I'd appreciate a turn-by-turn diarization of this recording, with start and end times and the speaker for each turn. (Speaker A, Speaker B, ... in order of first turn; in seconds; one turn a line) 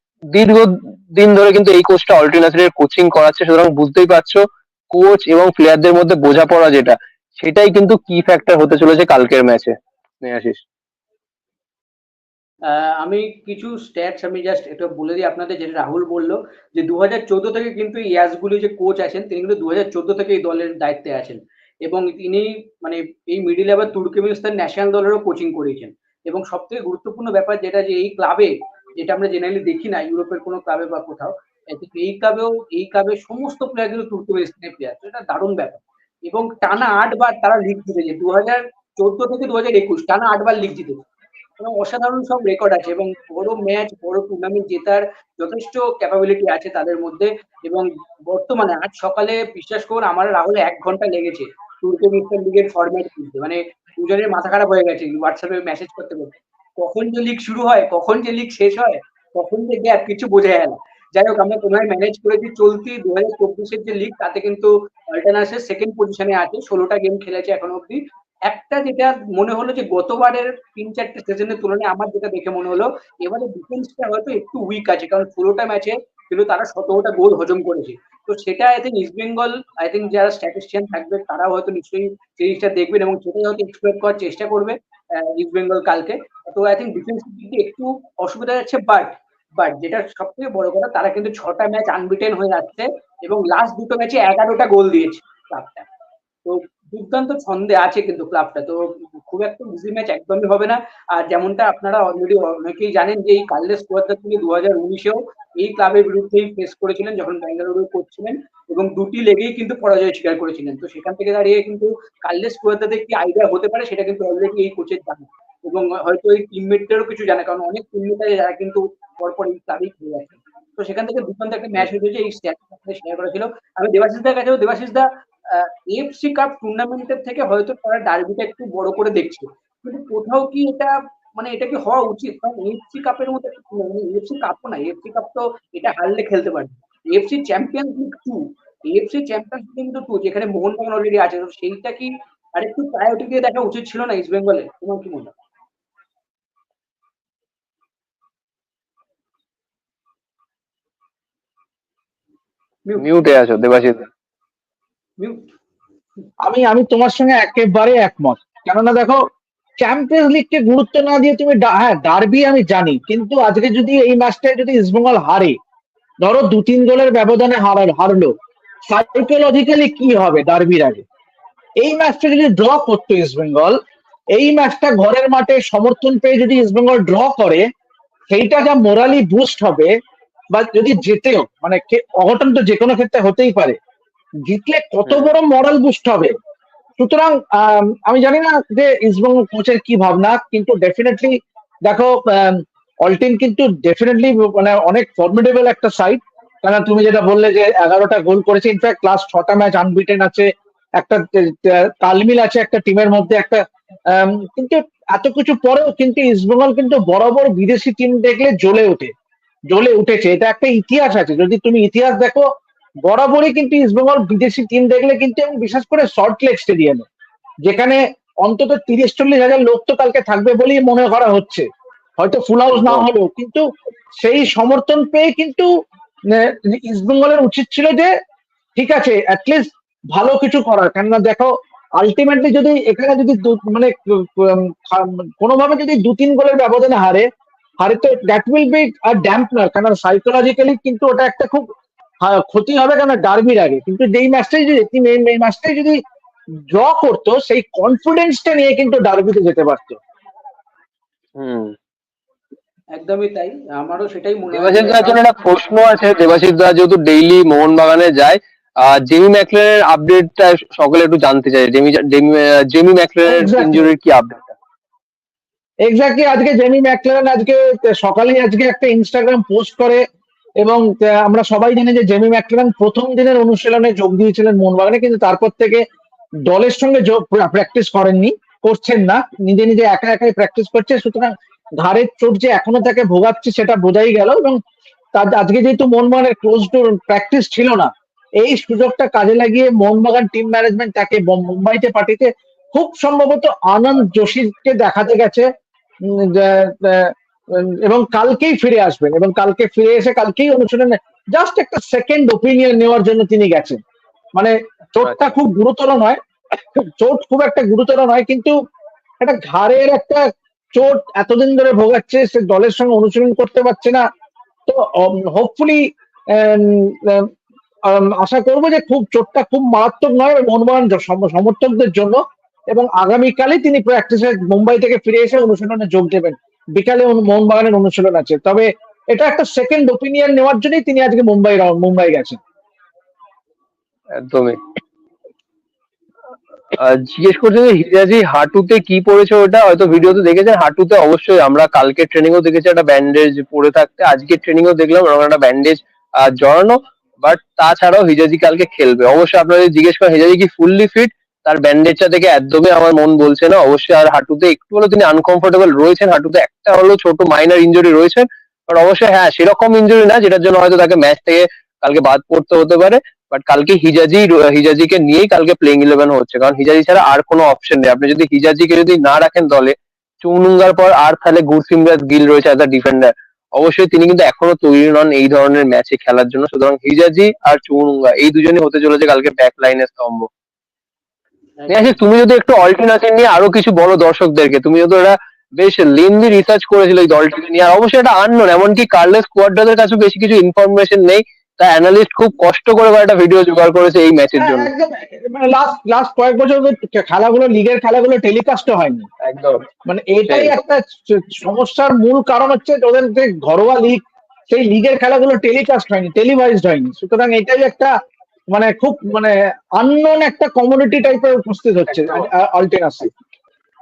Speaker A: 0.3-10.6
Speaker B: 12.7-41.1
Speaker B: 41.6-95.9
Speaker B: 96.5-145.3
Speaker A: 153.0-154.1
Speaker C: 156.4-159.2
Speaker C: 159.8-165.6
Speaker C: 166.2-168.3
Speaker C: 168.9-171.1
Speaker C: 171.8-173.8
Speaker C: 174.3-177.6
Speaker C: 178.3-179.9
Speaker C: 180.5-183.8
Speaker C: 184.5-186.3
Speaker A: 185.1-185.3
Speaker C: 187.0-191.3
Speaker C: 191.9-209.1
Speaker C: 209.7-212.5
Speaker C: 213.0-217.1
Speaker C: 217.7-221.7
Speaker C: 222.2-223.6
Speaker A: 222.8-223.1
Speaker C: 224.2-225.7
Speaker C: 226.3-228.1
Speaker C: 228.8-237.3
Speaker C: 237.8-241.7
Speaker C: 242.2-246.0
Speaker C: 246.7-250.0
Speaker A: 251.4-251.8
Speaker B: 252.9-255.2
Speaker A: 254.5-264.6
Speaker C: 263.3-263.9
Speaker C: 265.9-270.0
Speaker C: 270.6-275.8
Speaker C: 276.5-284.6
Speaker C: 285.1-295.5
Speaker C: 296.1-303.8
Speaker C: 304.4-308.6
Speaker C: 309.2-314.0
Speaker C: 314.7-317.3
Speaker C: 317.9-332.4
Speaker A: 334.1-334.6
Speaker A: 336.7-380.3
Speaker B: 381.6-382.0
Speaker A: 381.7-394.7
Speaker C: 394.4-399.1
Speaker A: 399.2-399.7
Speaker C: 399.9-407.9
Speaker A: 400.3-400.6
Speaker C: 408.5-413.1